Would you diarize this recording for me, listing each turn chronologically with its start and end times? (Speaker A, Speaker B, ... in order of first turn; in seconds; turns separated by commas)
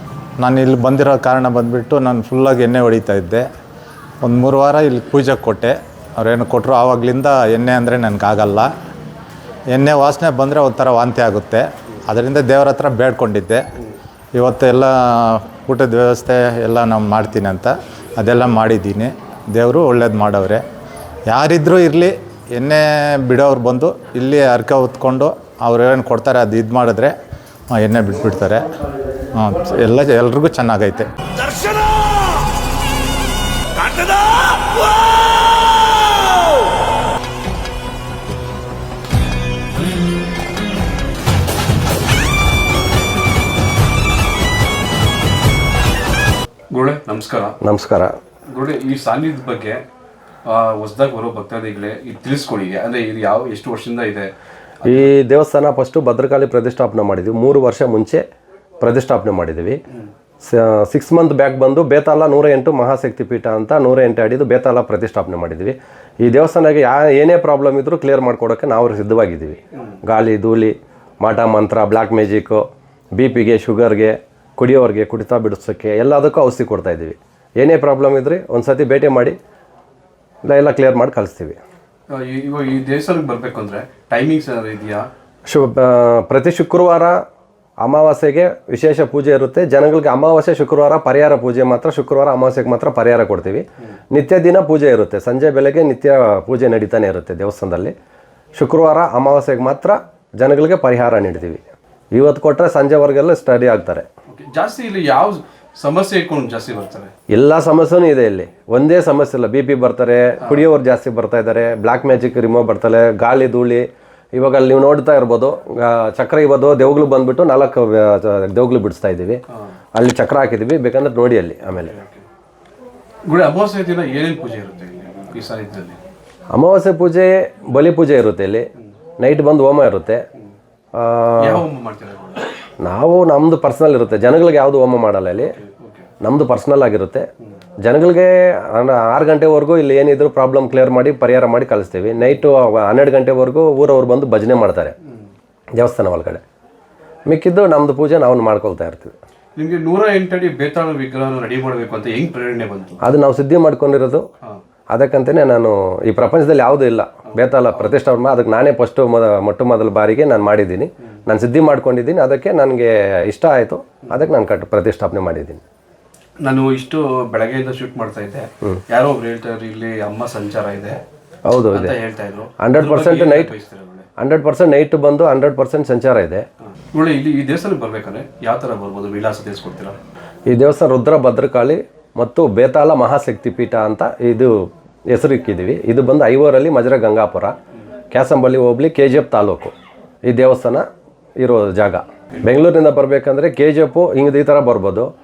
Speaker A: 0.4-3.4, Speaker A: 4.2-8.7, Speaker A: 9.7-13.6, Speaker A: 14.3-20.6, Speaker A: 21.3-27.1, Speaker A: 27.7-28.7, Speaker A: 29.3-31.1, Speaker B: 31.4-32.2, Speaker B: 33.8-34.4, Speaker B: 46.7-47.5, Speaker C: 47.6-48.1, Speaker B: 48.5-49.8, Speaker B: 50.4-55.1, Speaker C: 54.8-58.2, Speaker C: 58.8-59.8, Speaker C: 60.4-72.6, Speaker C: 73.1-79.4, Speaker C: 80.4-81.6, Speaker B: 82.1-85.1, Speaker C: 85.5-87.2, Speaker C: 87.8-97.9, Speaker C: 98.5-101.6, Speaker C: 102.1-104.1, Speaker B: 104.3-107.1, Speaker C: 107.3-119.4, Speaker C: 119.9-122.0, Speaker B: 121.8-122.2, Speaker B: 123.3-126.0, Speaker C: 126.5-128.7, Speaker C: 129.2-130.2, Speaker C: 130.9-131.6, Speaker B: 131.4-132.6, Speaker C: 132.8-135.6, Speaker B: 135.5-136.1, Speaker C: 136.2-137.3, Speaker C: 137.8-144.9, Speaker C: 145.8-146.4, Speaker C: 147.3-149.1, Speaker B: 149.6-153.0, Speaker C: 153.0-154.3, Speaker C: 154.9-165.6, Speaker B: 157.3-157.9, Speaker B: 166.4-171.0, Speaker C: 171.5-172.0, Speaker B: 171.7-174.1, Speaker C: 172.6-173.5, Speaker C: 174.2-176.4, Speaker B: 176.9-180.0, Speaker C: 180.5-187.5, Speaker C: 188.1-189.7, Speaker C: 190.3-190.8, Speaker C: 191.4-195.1